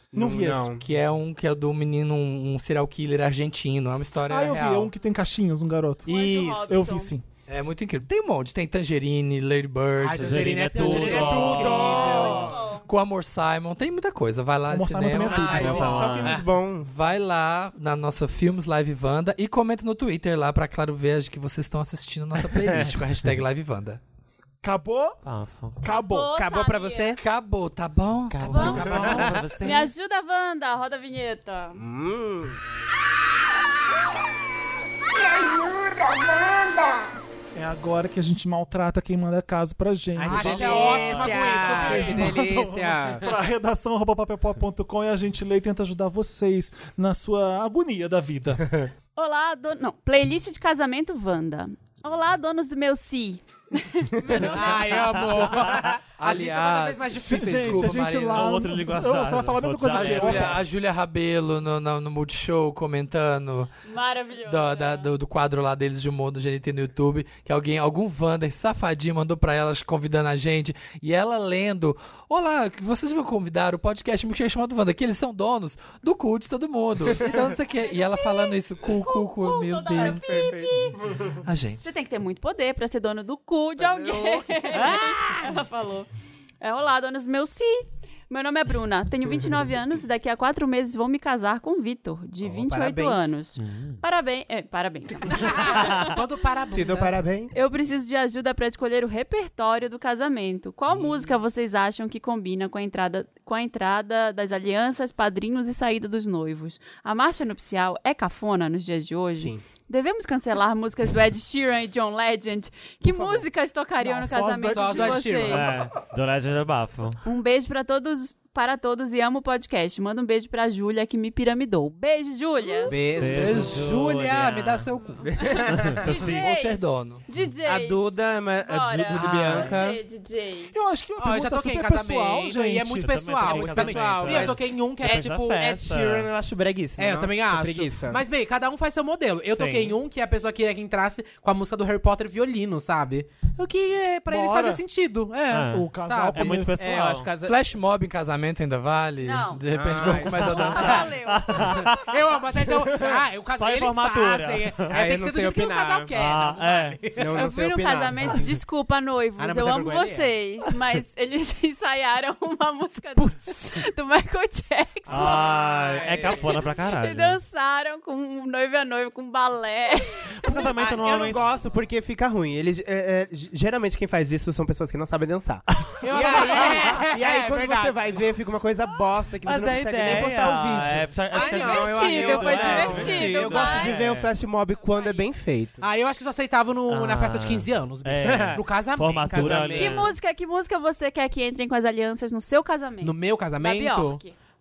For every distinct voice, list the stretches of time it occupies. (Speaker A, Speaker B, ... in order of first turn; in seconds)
Speaker A: 0.1-0.8, 10.8-12.7, 15.2-16.9, 22.6-22.9, 26.3-27.2, 28.8-29.3, 31.8-32.6, 40.1-43.3, 80.1-80.7, 83.8-85.0, 92.4-93.3, 96.7-97.5, 109.3-109.6, 113.1-113.4, 122.8-124.0, 125.2-126.1, 127.6-130.0, 133.4-138.2, 146.8-147.6, 149.7-151.0, 152.5-153.2, 154.9-156.1, 157.1-158.4, 165.1-166.7, 170.5-185.8, 188.2-188.6, 189.3-190.1
Speaker B: 0.1-0.7, 4.3-6.2, 6.7-7.2, 14.7-16.2, 24.6-25.2, 25.8-26.4, 37.5-48.6, 57.1-60.6, 114.0-115.3, 130.7-133.3, 144.3-144.8, 145.7-146.9
Speaker C: 0.8-4.9, 6.1-6.9, 7.5-16.2, 16.9-24.0, 27.2-29.3, 56.2-58.6, 59.8-63.7, 64.5-80.8, 81.4-81.8, 123.2-127.2, 147.4-151.1
Speaker D: 6.1-7.1, 12.0-12.9, 25.8-27.2, 28.4-31.8, 49.1-55.2, 63.9-65.1, 77.7-81.0, 81.8-86.1, 86.6-96.2, 97.5-115.8, 117.2-123.1, 125.4-130.7, 149.2-151.8, 157.3-171.1, 181.3-184.1, 184.8-185.3, 189.8-194.3
Speaker E: 10.0-12.2, 40.2-42.4, 54.4-57.9, 84.8-85.4, 95.3-97.1, 114.7-115.8, 129.1-129.7, 131.2-135.7, 137.0-146.7, 150.6-151.0, 151.6-157.4, 159.4-160.3, 163.2-163.5, 176.0-178.2, 185.8-189.7, 193.0-194.2
Speaker F: 10.2-12.0, 15.5-16.4, 25.2-25.8, 28.3-29.9, 55.4-55.9, 58.3-60.6, 93.6-94.0, 95.6-96.1, 115.4-117.2, 123.0-124.9, 125.8-126.5, 133.0-136.3, 139.5-139.9, 145.5-147.3, 151.2-152.2, 153.5-155.0, 156.1-157.1, 165.1-167.4, 170.4-171.5, 175.8-176.5, 179.4-184.3, 186.9-190.1
Speaker G: 35.1-37.1